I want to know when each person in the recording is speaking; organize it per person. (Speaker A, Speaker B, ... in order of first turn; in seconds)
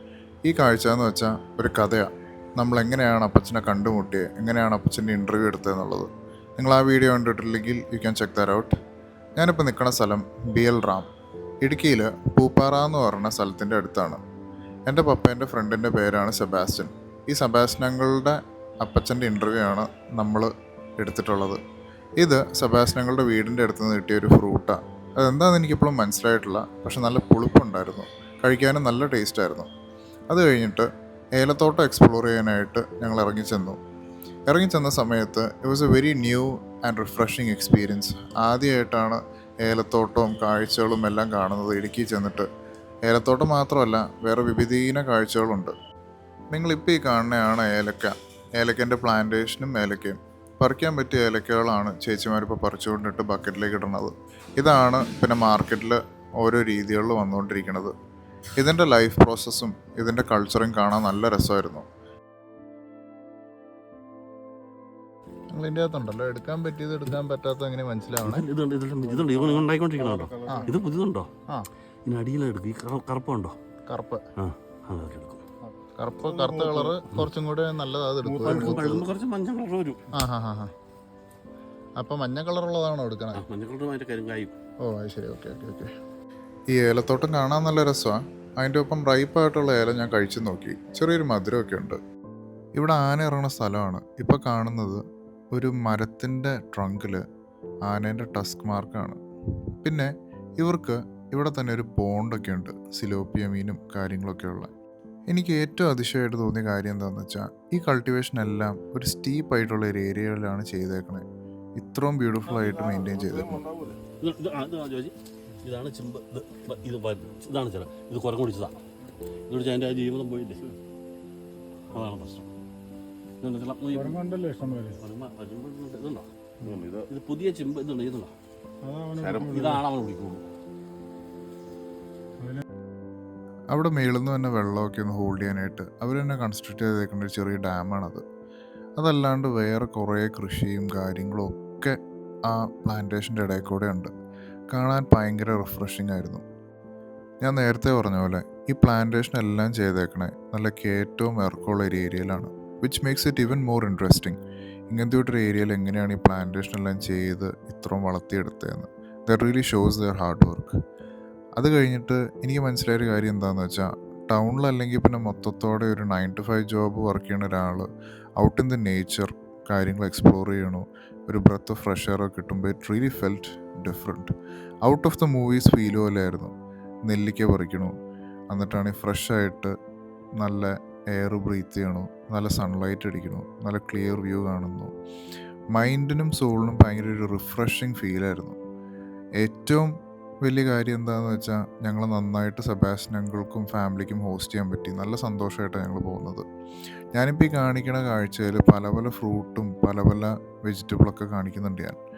Speaker A: 0.5-8.8, 9.4-11.1, 11.6-14.2, 14.9-21.6, 22.2-29.7, 30.3-33.8, 34.5-42.5, 43.1-45.7, 46.5-57.9, 58.6-61.9, 65.5-68.5, 73.9-74.3, 76.0-79.1, 80.1-80.7, 82.0-83.4, 84.8-85.9, 86.7-92.0, 92.8-95.0, 95.5-97.2, 97.9-99.2, 99.8-104.7, 105.3-111.2, 111.8-113.7, 133.7-138.2, 139.0-144.1, 144.7-146.4, 147.4-154.4, 154.9-160.8, 161.6-167.9, 168.4-174.3, 174.8-176.5, 177.1-177.9, 178.5-179.7, 180.4-184.9, 185.7-188.6, 189.4-196.4, 197.1-202.0
Speaker B: 68.2-71.3, 72.1-73.5, 74.4-75.4, 78.4-80.0, 83.3-84.5, 114.2-118.8, 119.5-120.7, 121.9-122.5, 123.4-124.2, 125.0-128.3, 129.3-130.5
Speaker C: 69.1-70.8, 76.2-77.0, 78.2-79.0, 113.6-114.0, 123.9-125.0, 128.8-129.8